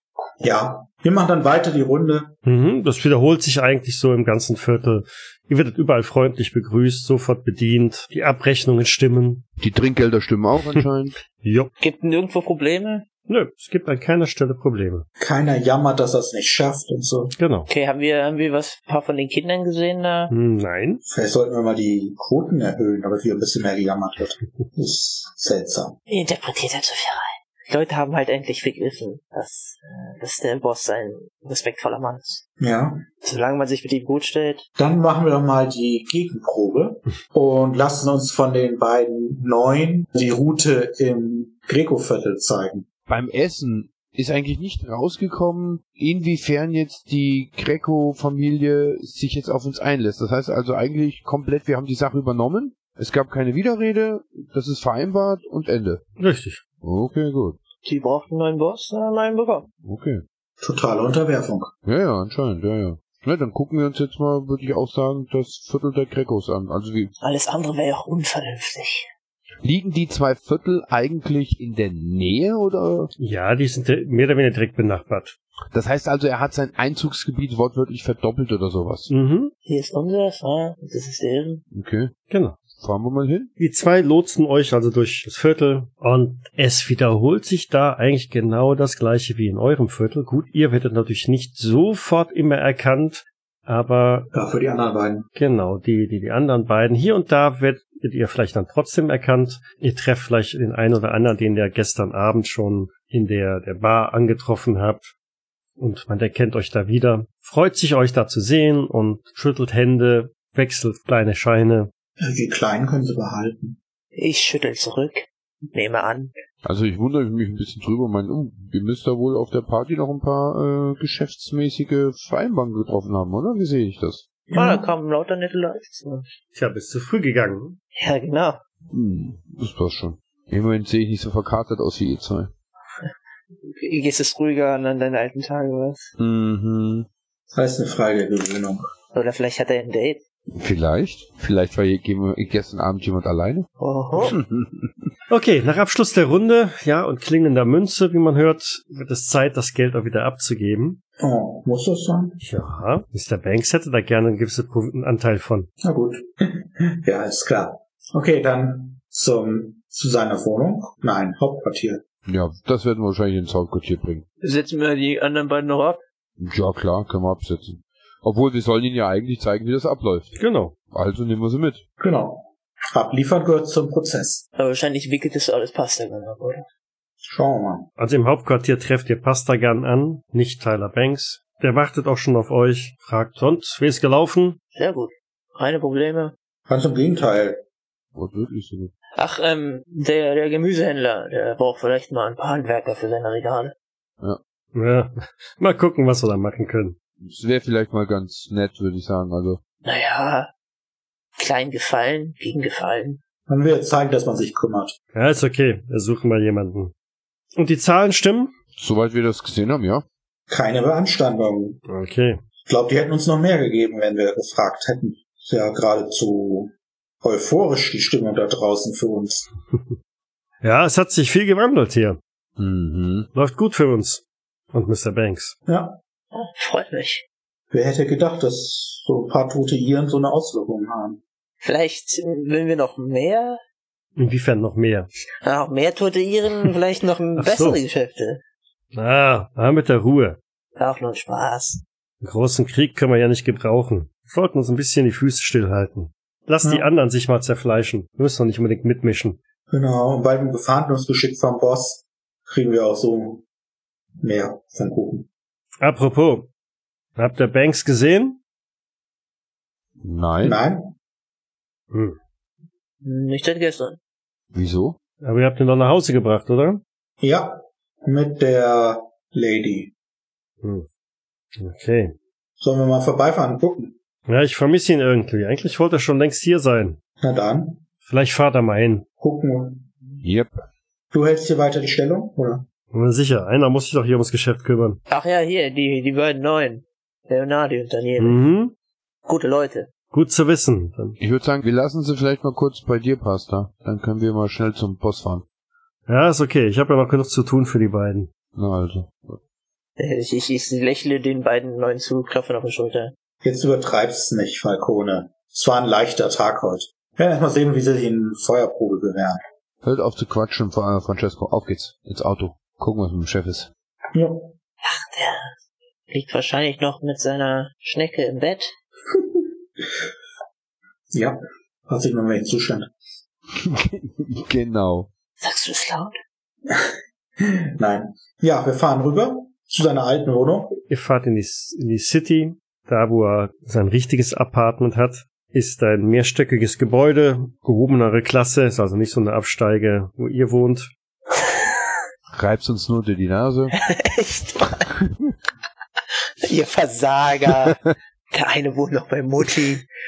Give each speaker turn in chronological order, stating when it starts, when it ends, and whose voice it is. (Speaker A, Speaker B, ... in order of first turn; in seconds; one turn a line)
Speaker A: 0.4-2.3
Speaker B: 2.4-9.4
Speaker C: 9.6-11.2
Speaker B: 11.4-11.7
Speaker D: 11.8-13.0
Speaker B: 13.3-15.1
Speaker A: 15.2-17.3
Speaker B: 17.4-17.7
Speaker D: 17.7-20.3
Speaker B: 20.3-21.0
Speaker A: 21.0-25.9
Speaker D: 26.1-32.4
Speaker A: 32.6-33.0
Speaker D: 33.2-34.6
Speaker A: 34.8-42.9
Speaker C: 43.1-56.0
Speaker B: 56.2-56.6
Speaker C: 56.8-57.6
Speaker D: 57.8-59.7
Speaker C: 59.8-60.2
Speaker A: 60.6-61.7
Speaker C: 61.8-67.1
Speaker D: 67.2-69.1
Speaker C: 69.6-73.1
Speaker B: 73.2-75.3
Speaker C: 75.7-79.1
Speaker B: 79.1-79.5
Speaker D: 79.7-81.6
Speaker C: 81.7-82.1
Speaker B: 82.3-82.6
Speaker C: 82.7-83.5
Speaker B: 83.6-94.3
Speaker A: 94.3-95.3
Speaker B: 95.3-105.1
Speaker B: 105.8-111.9
Speaker A: 112.2-113.8
Speaker D: 114.1-116.3
Speaker C: 116.6-124.2
Speaker A: 124.5-124.9
Speaker D: 124.5-126.3
Speaker B: 126.5-127.8
Speaker D: 127.9-128.6
Speaker C: 128.9-132.5
Speaker D: 133.0-136.1
Speaker C: 136.2-137.1
Speaker A: 137.5-138.9
Speaker D: 139.1-140.2
Speaker C: 140.5-145.1
Speaker D: 143.8-144.4
Speaker B: 145.3-151.0
Speaker A: 151.2-152.4
Speaker B: 152.4-155.7
Speaker A: 155.8-162.0
Speaker C: 162.2-164.2
Speaker D: 164.4-166.0
Speaker C: 166.4-170.3
Speaker B: 170.4-170.7
Speaker C: 170.9-171.8
Speaker A: 172.0-174.4
Speaker D: 174.6-176.7
Speaker A: 177.2-177.9
Speaker B: 178.0-184.6
Speaker D: 184.7-186.3
Speaker A: 186.7-187.6
Speaker C: 188.1-188.9
Speaker D: 189.2-193.7
Speaker B: 194.7-196.9
Speaker C: 197.2-199.6
Speaker D: 199.8-200.5
Speaker D: 201.4-203.2
Speaker A: 203.5-204.9
Speaker B: 205.1-206.9
Speaker B: 207.6-208.5
Speaker C: 208.8-210.0
Speaker A: 210.5-211.8
Speaker B: 211.9-212.4
Speaker A: 212.7-219.5
Speaker B: 220.6-222.2
Speaker C: 222.6-223.3
Speaker B: 223.3-225.5
Speaker A: 225.7-226.0
Speaker D: 226.3-227.2
Speaker A: 227.7-231.2
Speaker D: 231.6-233.6
Speaker B: 234.2-235.1
Speaker D: 235.4-238.4
Speaker B: 237.4-237.8
Speaker B: 238.9-240.4
Speaker D: 240.8-241.8
Speaker B: 242.2-249.4
Speaker A: 246.6-246.9
Speaker A: 249.7-253.4
Speaker A: 254.2-255.3
Speaker B: 255.8-256.5
Speaker B: 257.1-258.4
Speaker C: 260.0-260.6
Speaker A: 260.4-260.9
Speaker B: 261.9-262.2
Speaker D: 263.0-264.0
Speaker C: 264.5-265.0
Speaker B: 265.2-266.8
Speaker A: 267.2-269.9
Speaker B: 270.6-270.9
Speaker B: 271.6-272.1
Speaker A: 272.6-273.9
Speaker B: 274.3-277.0
Speaker A: 277.2-277.8
Speaker B: 278.0-279.1
Speaker A: 279.2-279.9
Speaker C: 280.2-280.5
Speaker A: 281.1-282.6
Speaker B: 282.9-285.0
Speaker D: 285.1-288.4
Speaker B: 288.2-288.7
Speaker D: 289.2-289.9
Speaker B: 290.1-291.2
Speaker C: 291.2-295.4
Speaker B: 296.1-298.3
Speaker C: 298.5-299.4
Speaker D: 300.0-303.1
Speaker A: 303.4-309.4
Speaker C: 309.8-313.7
Speaker A: 314.1-314.5
Speaker D: 314.8-315.6
Speaker D: 316.1-318.7
Speaker A: 321.1-322.9
Speaker C: 323.6-325.1
Speaker D: 325.4-326.1
Speaker A: 326.7-330.8
Speaker B: 330.9-340.9
Speaker C: 342.3-343.8
Speaker D: 343.8-344.9
Speaker D: 346.4-349.9